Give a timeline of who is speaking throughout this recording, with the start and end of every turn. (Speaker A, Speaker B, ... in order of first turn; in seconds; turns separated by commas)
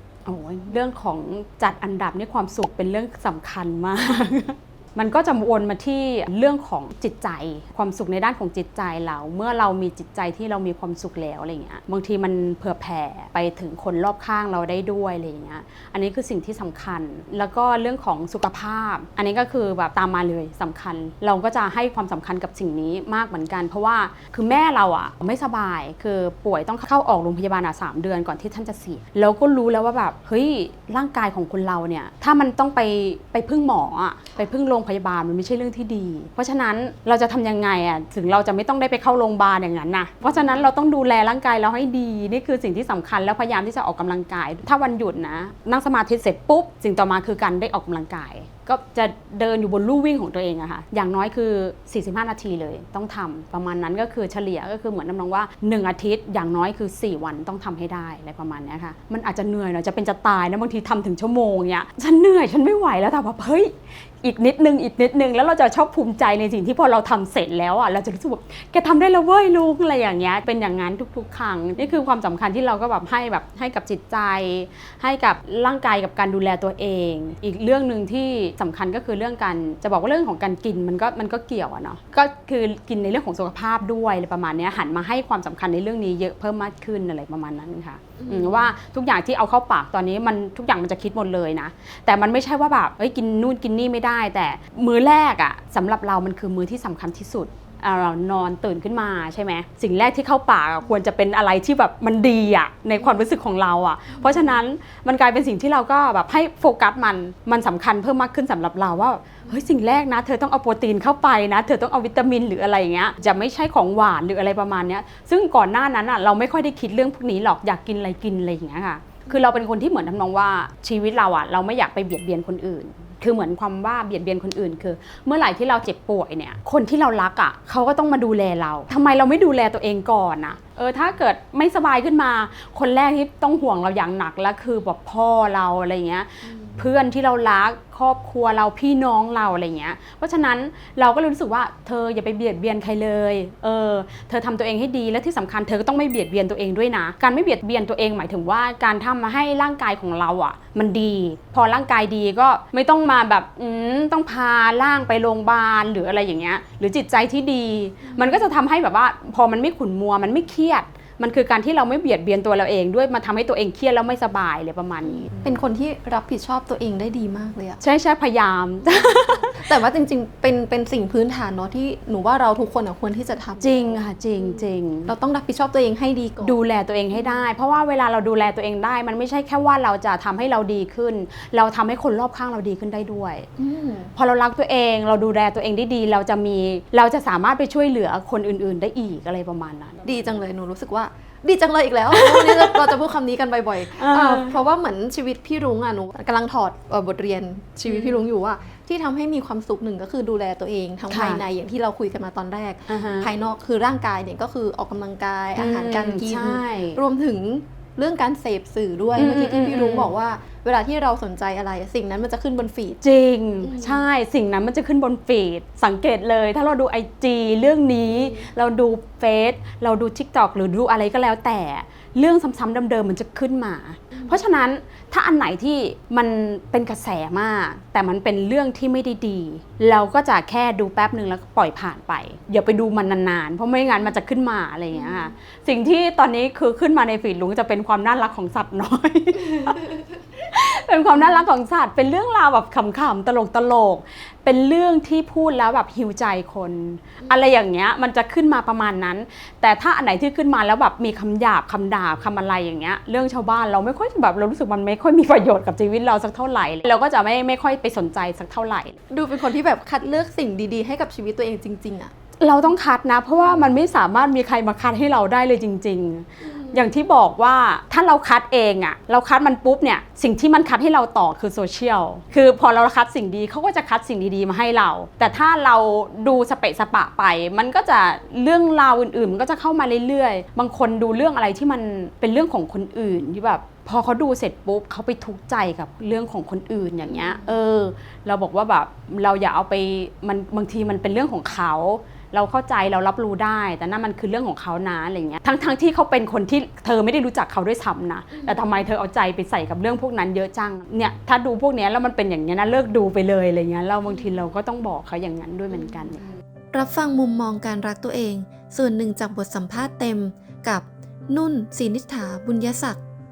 Speaker A: 0.2-165.6, Speaker B: 40.2-40.7, Speaker B: 88.2-88.7, Speaker B: 103.0-103.2, Speaker B: 104.2-104.6, Speaker B: 136.5-136.7, Speaker B: 158.0-158.5, Speaker B: 165.1-167.8, Speaker A: 167.8-169.7, Speaker B: 168.9-176.6, Speaker A: 173.6-175.1, Speaker A: 176.4-183.5, Speaker B: 177.1-177.4, Speaker B: 183.6-184.1, Speaker A: 184.2-190.1, Speaker B: 190.0-213.0, Speaker A: 192.1-193.0, Speaker A: 194.0-194.6, Speaker A: 197.8-198.2, Speaker A: 201.1-201.4, Speaker A: 202.9-203.3, Speaker A: 205.6-207.0, Speaker A: 209.2-210.1, Speaker A: 213.0-259.0, Speaker B: 213.6-214.0, Speaker B: 218.1-218.4, Speaker B: 224.1-224.4, Speaker B: 234.9-235.3, Speaker B: 241.1-241.4, Speaker B: 259.1-262.1, Speaker A: 262.4-306.2, Speaker B: 266.4-266.8, Speaker B: 287.0-287.5, Speaker B: 298.4-298.8, Speaker C: 306.7-313.0